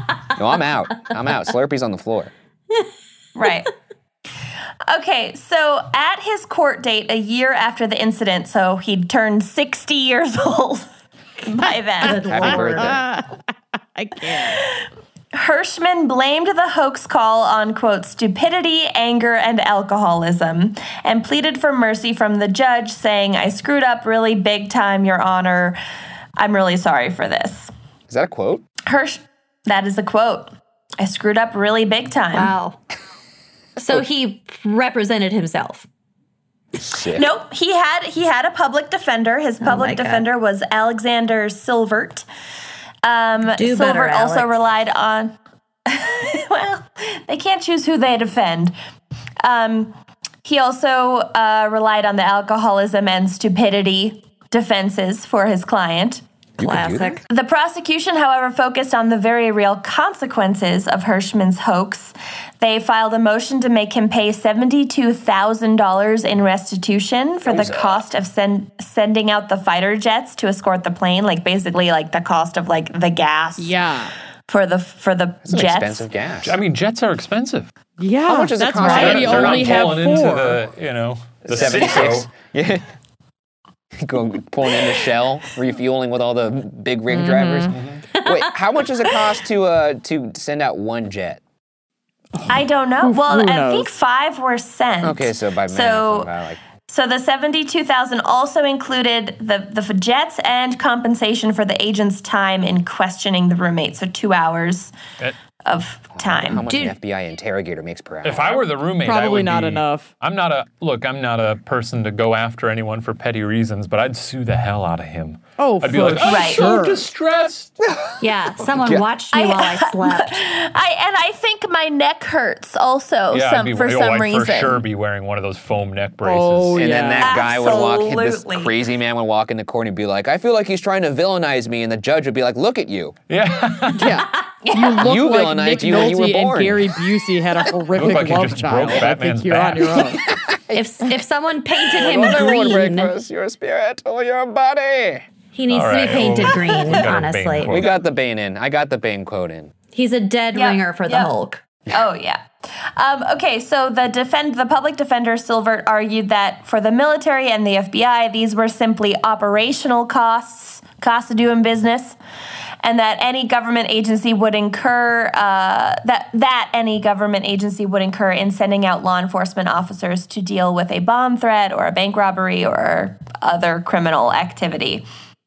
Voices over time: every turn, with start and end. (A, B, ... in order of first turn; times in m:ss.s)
0:00.3-0:02.3 A
0:03.3-0:03.7 B
0:04.9-0:10.9 B
0:11.4-0:12.5 B
0:12.0-0:13.0 A
0:12.0-0:12.9 C
0:12.2-0:13.4 D
0:13.9-0:14.7 D
0:14.3-0:14.8 B
0:15.3-0:25.8 B
0:26.4-0:27.7 B
0:28.1-0:28.6 A
0:28.8-0:32.5 B
0:32.3-0:32.8 C
0:33.8-0:34.0 A
0:33.8-0:35.8 C
0:36.7-0:37.3 A
0:37.1-0:42.2 B
0:39.6-0:40.2 C
0:43.0-0:45.3 B
0:43.5-0:44.6 C
0:45.9-0:48.7 B
0:49.4-0:56.2 B
0:56.6-0:57.2 A
0:56.6-0:57.2 C
0:57.3-1:13.8 B
1:07.4-1:08.0 A
1:13.6-1:14.1 D
1:14.5-1:16.1 B
1:15.4-1:16.6 A
1:16.4-1:17.7 E
1:18.0-1:20.6 D
1:18.3-1:19.9 A
1:18.8-1:22.3 E
1:21.5-1:22.8 A
1:24.0-1:31.4 A
1:27.1-1:27.8 D
1:27.7-1:28.0 E
1:32.4-1:33.9 D
1:32.5-1:36.3 B
1:35.0-1:36.6 A
1:36.9-1:44.9 B
1:45.6-1:46.6 B
1:46.2-1:48.6 A
1:46.7-1:46.9 C
1:48.2-1:57.7 E
1:49.0-1:50.1 D
1:55.6-1:57.0 D
1:56.2-1:56.7 B
1:57.9-1:58.1 A
1:58.2-2:00.4 C
1:58.8-1:59.0 A
1:59.3-2:04.8 B
2:03.3-2:06.9 E
2:06.2-2:07.4 D
2:06.8-2:13.2 A
2:07.2-2:08.7 B
2:13.3-2:14.2 E
2:14.0-2:20.2 D
2:14.6-2:15.0 B
2:15.0-2:17.0 A
2:17.9-2:20.0 E
2:20.2-2:21.2 A
2:20.7-2:23.1 C
2:21.8-2:25.2 A
2:25.5-2:27.8 C
2:25.7-2:27.9 E
2:27.7-2:29.7 A
2:29.9-2:31.6 C
2:30.5-2:31.3 B
2:31.9-2:32.4 B
2:33.0-2:42.2 B
2:42.8-2:55.0 B